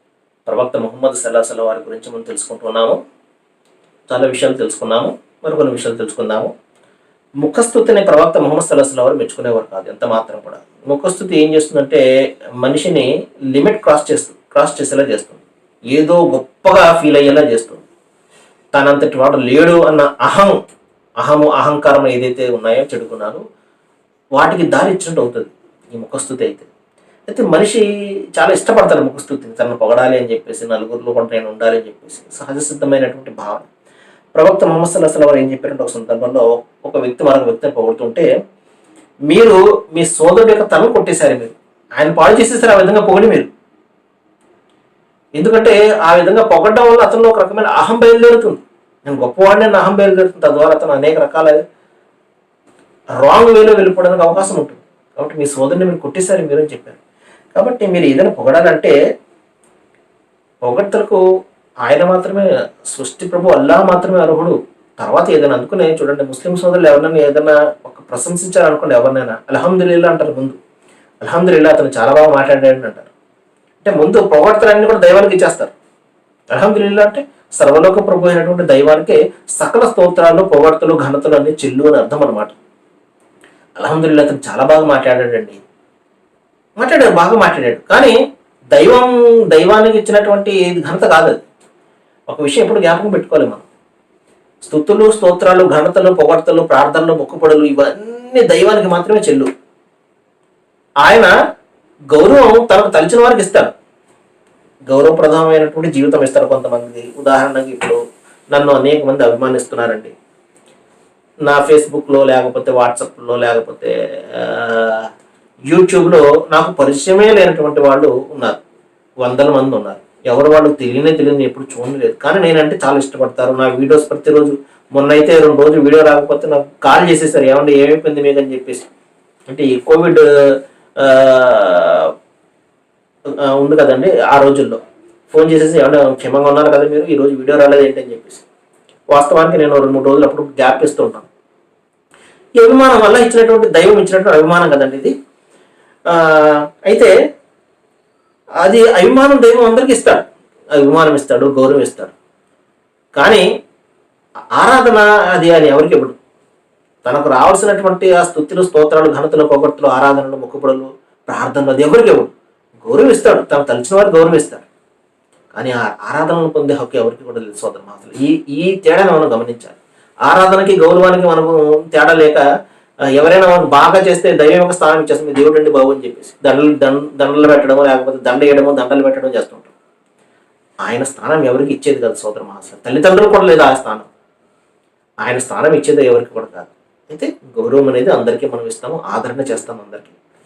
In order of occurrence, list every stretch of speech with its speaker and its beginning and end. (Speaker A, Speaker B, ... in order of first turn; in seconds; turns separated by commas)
Speaker A: 0.5-3.0, Speaker A: 4.1-6.5, Speaker A: 7.4-12.0, Speaker A: 12.6-17.8, Speaker A: 18.7-20.6, Speaker A: 21.2-23.4, Speaker A: 24.3-26.7, Speaker A: 27.3-27.8, Speaker A: 28.4-33.7, Speaker A: 34.3-38.3, Speaker A: 39.3-43.5, Speaker A: 45.4-51.6, Speaker A: 53.2-57.0, Speaker A: 57.5-58.9, Speaker A: 60.6-61.2, Speaker A: 61.8-70.6, Speaker A: 71.2-73.1, Speaker A: 73.8-75.7, Speaker A: 76.5-82.5, Speaker A: 83.8-85.6, Speaker A: 86.8-88.2, Speaker A: 88.7-91.4, Speaker A: 92.3-93.7, Speaker A: 94.6-99.5, Speaker A: 101.0-101.3, Speaker A: 102.1-103.7, Speaker A: 104.9-108.0, Speaker A: 108.5-110.1, Speaker A: 111.5-115.1, Speaker A: 115.7-118.6, Speaker A: 119.2-128.9, Speaker A: 129.5-130.3, Speaker A: 131.0-132.1, Speaker A: 133.4-138.4, Speaker A: 139.1-141.3, Speaker A: 142.6-145.1, Speaker A: 146.1-147.1, Speaker A: 148.6-150.2, Speaker A: 150.8-152.1, Speaker A: 153.1-153.5, Speaker A: 154.6-156.2, Speaker A: 157.0-162.3, Speaker A: 162.8-164.7, Speaker A: 165.5-172.4, Speaker A: 173.1-179.7, Speaker A: 180.8-184.1, Speaker A: 185.2-190.2